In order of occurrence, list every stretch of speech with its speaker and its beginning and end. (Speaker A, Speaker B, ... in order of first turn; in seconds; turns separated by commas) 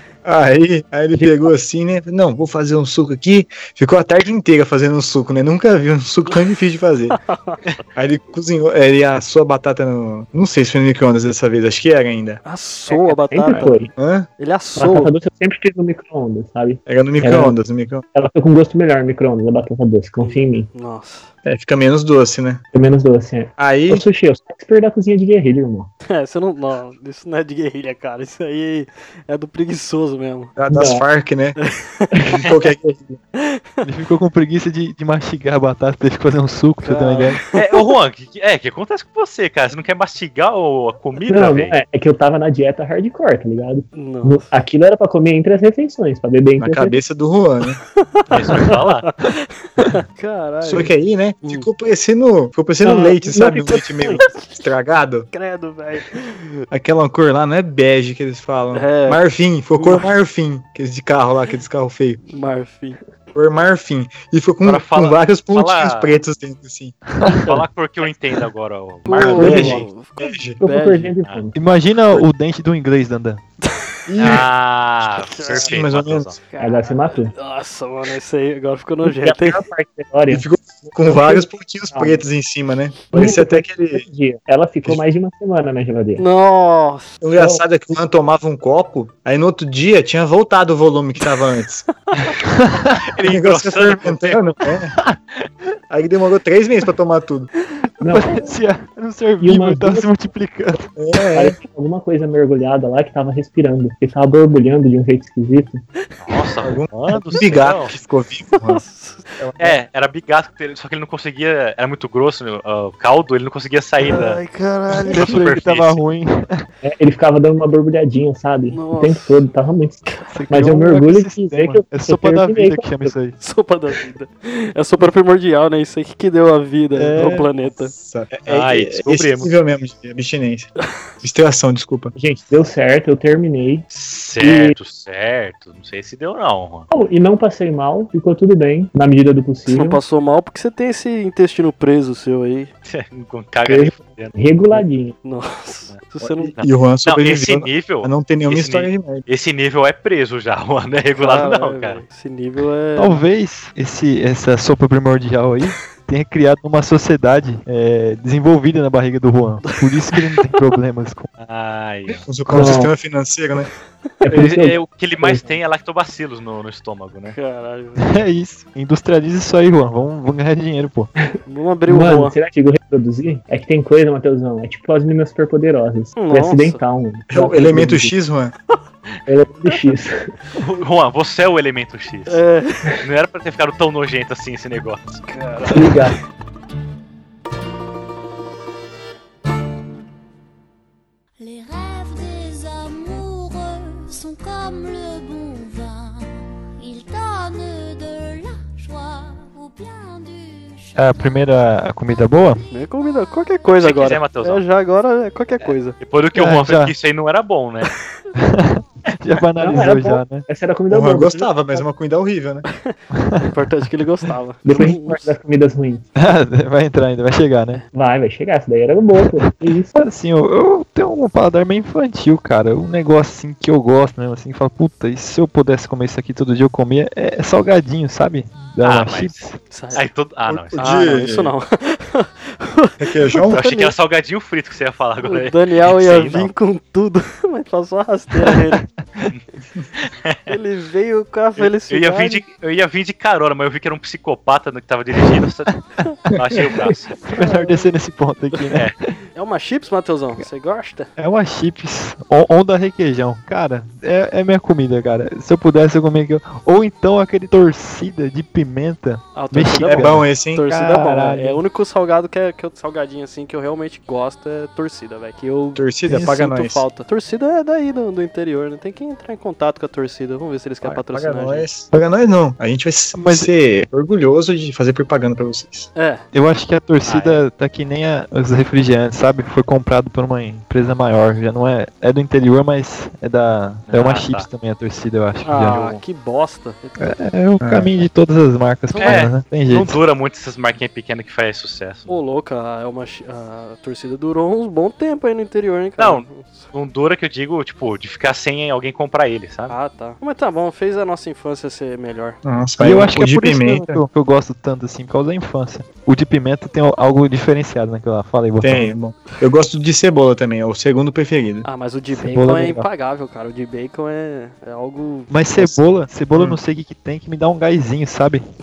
Speaker A: 0.2-7.2, Speaker B: 7.2-7.6, Speaker A: 7.9-12.4, Speaker B: 12.4-13.7, Speaker C: 12.9-13.9, Speaker A: 13.6-14.3, Speaker B: 14.4-15.1, Speaker C: 14.8-17.6, Speaker A: 16.9-18.0, Speaker C: 18.1-20.7, Speaker B: 20.2-21.3, Speaker A: 21.4-22.6, Speaker C: 22.7-25.9, Speaker A: 23.6-24.0, Speaker B: 26.1-30.5, Speaker A: 30.6-31.6, Speaker C: 30.7-31.1, Speaker B: 31.6-32.1, Speaker C: 32.1-32.5, Speaker A: 32.3-33.2, Speaker B: 33.4-33.8, Speaker D: 33.8-37.4, Speaker B: 36.8-37.9, Speaker E: 37.5-41.8, Speaker C: 41.3-47.0, Speaker B: 43.9-44.5, Speaker A: 46.6-47.8, Speaker B: 48.0-50.9, Speaker E: 48.3-49.1, Speaker A: 50.6-55.3, Speaker C: 52.8-54.3, Speaker B: 54.0-54.6, Speaker B: 55.3-56.6, Speaker A: 56.7-62.2, Speaker B: 58.7-59.2, Speaker B: 59.7-60.1, Speaker B: 62.3-63.0, Speaker A: 63.3-67.0, Speaker E: 64.6-66.2, Speaker D: 67.1-67.5, Speaker E: 67.3-69.8, Speaker B: 69.0-71.2, Speaker A: 69.2-70.6, Speaker C: 69.3-69.8, Speaker C: 70.6-71.5, Speaker D: 71.5-73.4, Speaker B: 73.6-74.4, Speaker A: 74.1-74.5, Speaker E: 74.2-76.4, Speaker B: 75.2-75.8, Speaker A: 75.4-76.3, Speaker B: 76.4-79.6, Speaker C: 76.6-77.3, Speaker C: 79.0-82.2, Speaker A: 80.3-84.0, Speaker C: 83.1-86.2, Speaker B: 86.2-87.2, Speaker A: 87.2-91.9, Speaker C: 87.3-87.6, Speaker D: 92.4-93.1, Speaker E: 93.1-94.4, Speaker A: 93.2-94.9, Speaker A: 95.9-97.5, Speaker D: 97.8-100.9, Speaker C: 98.0-98.5, Speaker C: 99.4-100.1, Speaker A: 100.9-101.5, Speaker C: 101.3-105.8, Speaker E: 106.2-107.9, Speaker A: 106.6-108.8, Speaker B: 108.5-109.3, Speaker A: 109.4-109.8, Speaker E: 109.6-114.4, Speaker B: 114.0-115.4, Speaker D: 115.0-116.7, Speaker E: 115.1-116.0, Speaker C: 116.8-123.1, Speaker B: 118.7-119.3, Speaker D: 120.3-123.4, Speaker B: 123.4-127.9, Speaker D: 126.9-127.5, Speaker A: 127.9-132.1, Speaker E: 128.5-129.5, Speaker C: 132.1-133.9, Speaker E: 133.9-136.9, Speaker C: 134.4-134.8, Speaker C: 136.9-140.0, Speaker B: 139.7-142.7, Speaker E: 142.8-144.3, Speaker C: 143.6-145.2, Speaker B: 145.2-146.5, Speaker A: 146.2-149.2, Speaker E: 146.6-152.0, Speaker B: 151.2-153.2, Speaker D: 152.9-161.3, Speaker B: 160.1-160.4, Speaker E: 161.4-162.2, Speaker A: 162.2-163.7, Speaker C: 162.5-162.9, Speaker C: 164.2-165.5, Speaker E: 164.3-167.3, Speaker B: 167.2-168.2, Speaker D: 168.0-171.1, Speaker B: 171.4-172.3, Speaker C: 171.9-178.1, Speaker B: 176.2-176.8, Speaker A: 177.3-178.5, Speaker C: 179.3-180.3, Speaker E: 180.6-182.4, Speaker B: 182.3-182.9, Speaker E: 183.0-185.2, Speaker B: 185.3-186.1, Speaker C: 185.7-186.1, Speaker F: 191.4-201.5, Speaker D: 200.9-202.6, Speaker F: 202.1-202.6, Speaker B: 202.7-206.0, Speaker E: 203.8-204.6, Speaker E: 206.0-207.9, Speaker D: 206.3-206.9, Speaker D: 208.3-210.4, Speaker C: 209.6-211.8, Speaker A: 210.9-212.7, Speaker D: 213.1-213.5, Speaker B: 213.5-215.3, Speaker C: 214.6-216.1, Speaker D: 216.2-217.8, Speaker C: 217.9-219.9, Speaker D: 219.4-229.6, Speaker E: 228.8-230.9, Speaker B: 229.7-230.1, Speaker A: 230.5-231.5, Speaker B: 230.8-233.9, Speaker A: 233.0-233.6, Speaker E: 233.5-236.5, Speaker B: 235.2-238.8, Speaker E: 239.9-240.5, Speaker B: 240.5-242.4, Speaker E: 241.6-245.8, Speaker D: 245.7-246.0, Speaker E: 246.3-247.2, Speaker A: 246.3-246.6, Speaker D: 247.2-249.1, Speaker B: 247.3-247.9, Speaker B: 249.3-251.1, Speaker D: 251.2-261.6, Speaker B: 259.3-271.7, Speaker A: 259.9-260.6, Speaker A: 265.7-266.9, Speaker A: 270.8-275.9, Speaker D: 273.1-273.5, Speaker B: 275.9-276.2, Speaker D: 276.3-285.9, Speaker E: 277.1-277.4, Speaker E: 283.9-284.5, Speaker B: 285.4-287.1, Speaker D: 287.0-290.0, Speaker A: 287.6-287.9, Speaker B: 288.9-289.3, Speaker E: 289.0-292.2, Speaker B: 292.1-296.7, Speaker E: 296.0-299.7, Speaker B: 299.7-302.4, Speaker A: 302.4-304.0, Speaker D: 302.8-308.9, Speaker A: 308.6-311.7, Speaker B: 311.6-315.9, Speaker D: 312.1-312.9, Speaker D: 315.3-318.4, Speaker A: 316.3-316.6